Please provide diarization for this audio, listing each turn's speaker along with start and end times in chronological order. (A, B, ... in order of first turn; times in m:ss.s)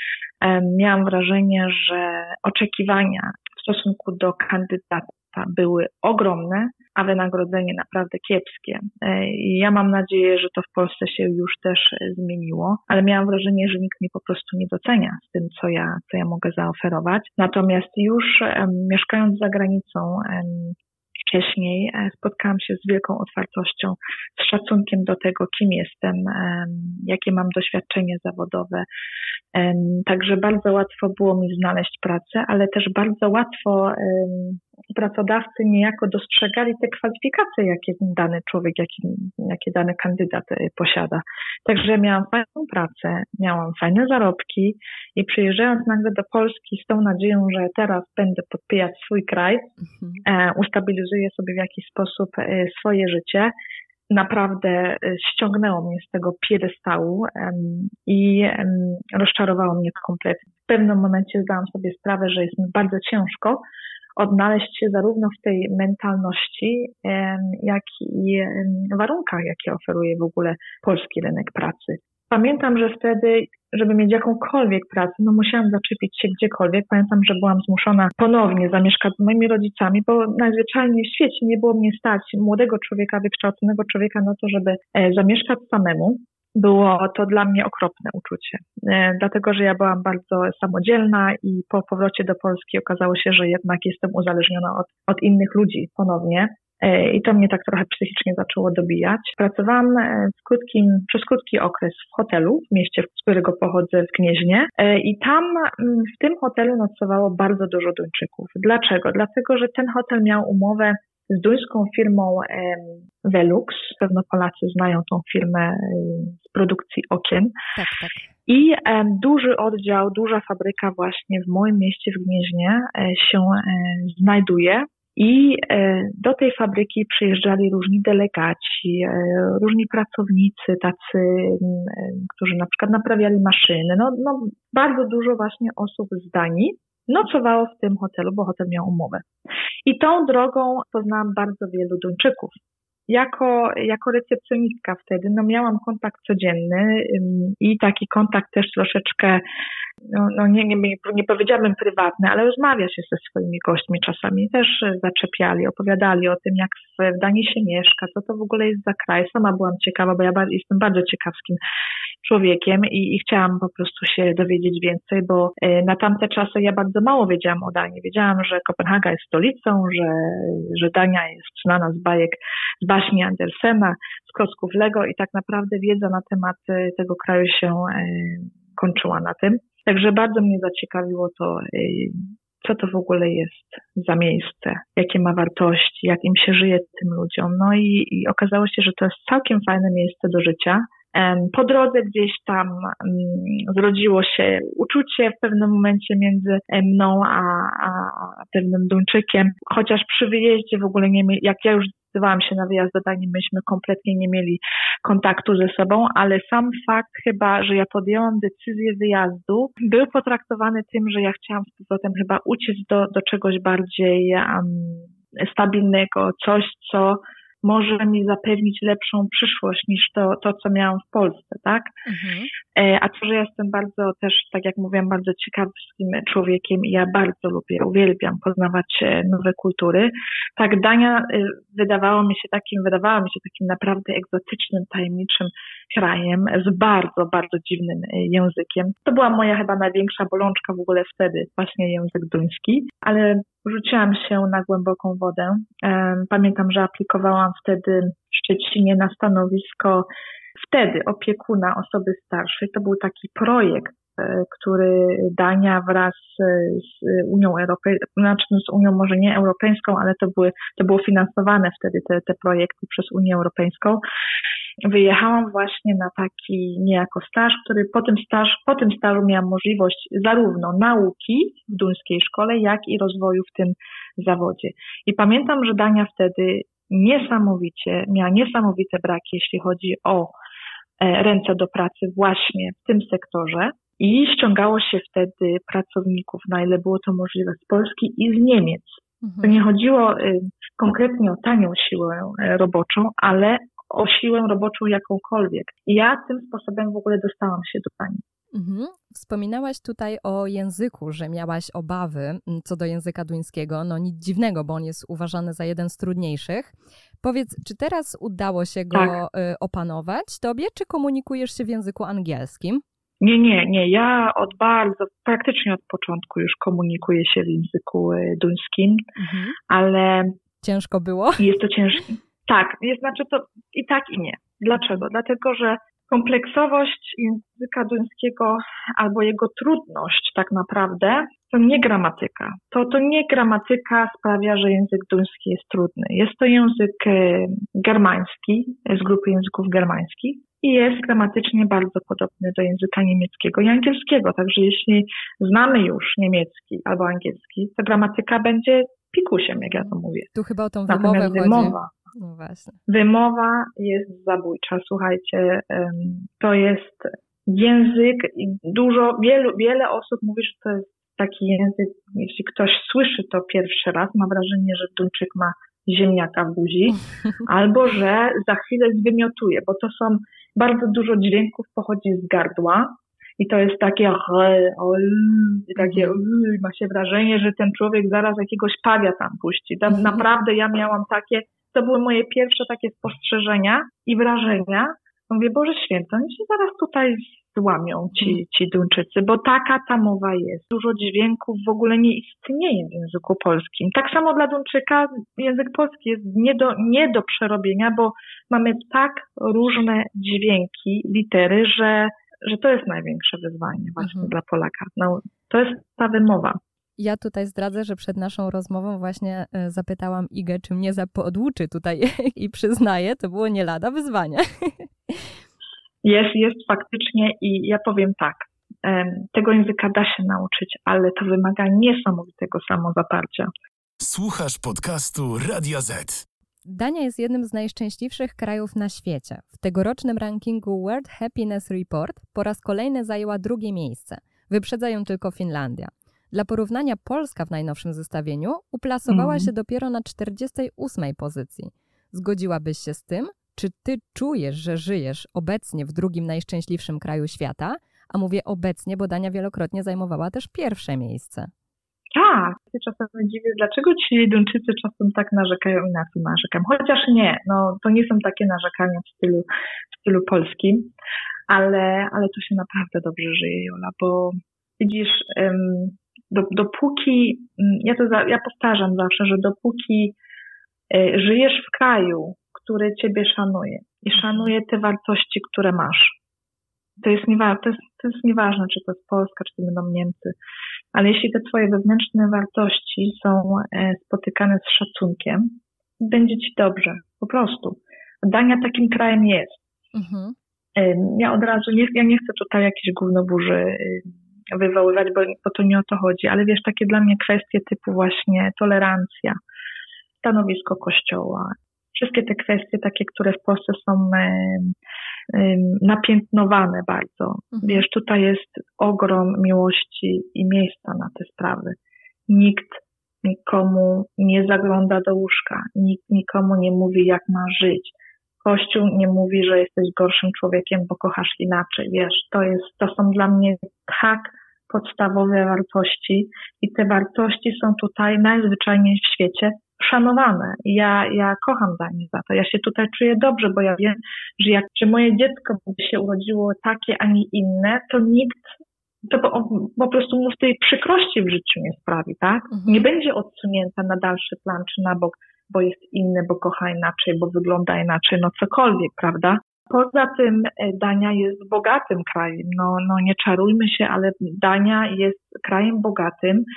0:00.4-0:28.9 A
0:29.5-0:49.7 A
0:49.8-0:50.2 B
0:50.2-0:53.5 A
0:54.1-1:03.6 A
1:04.2-1:57.5 A
1:57.8-1:58.3 B
1:58.5-2:19.2 A
2:19.9-2:22.6 A
2:23.1-2:29.4 A
2:30.1-2:41.6 A
2:42.2-3:41.9 A
3:42.1-3:42.5 B
3:42.8-4:10.1 A
4:10.6-4:24.0 A
4:24.9-4:40.3 A
4:41.0-4:58.2 A
4:49.2-4:49.6 B
4:58.5-5:12.8 B
5:13.2-5:19.0 A
5:19.2-5:19.6 B
5:19.7-5:20.4 A
5:20.6-5:21.5 B
5:21.4-5:50.3 A
5:49.6-5:52.8 B
5:50.9-5:51.9 A
5:52.9-6:46.6 A
6:15.8-6:16.2 B
6:19.9-6:20.2 B
6:44.0-6:44.3 B
6:47.0-6:55.2 B
6:56.0-7:03.5 A
7:04.0-7:06.2 C
7:06.7-7:31.5 B
7:19.1-7:19.5 A
7:32.2-7:40.9 A
7:41.5-7:50.2 A
7:50.9-7:56.2 A
7:54.2-7:54.5 B
7:57.0-8:00.3 A
8:00.9-8:09.6 A
8:09.9-8:10.4 B
8:10.8-8:19.4 A
8:20.2-8:24.7 A
8:25.3-8:31.8 A
8:27.5-8:27.8 B
8:32.3-8:58.5 A
8:59.0-9:16.4 A
9:02.5-9:02.9 B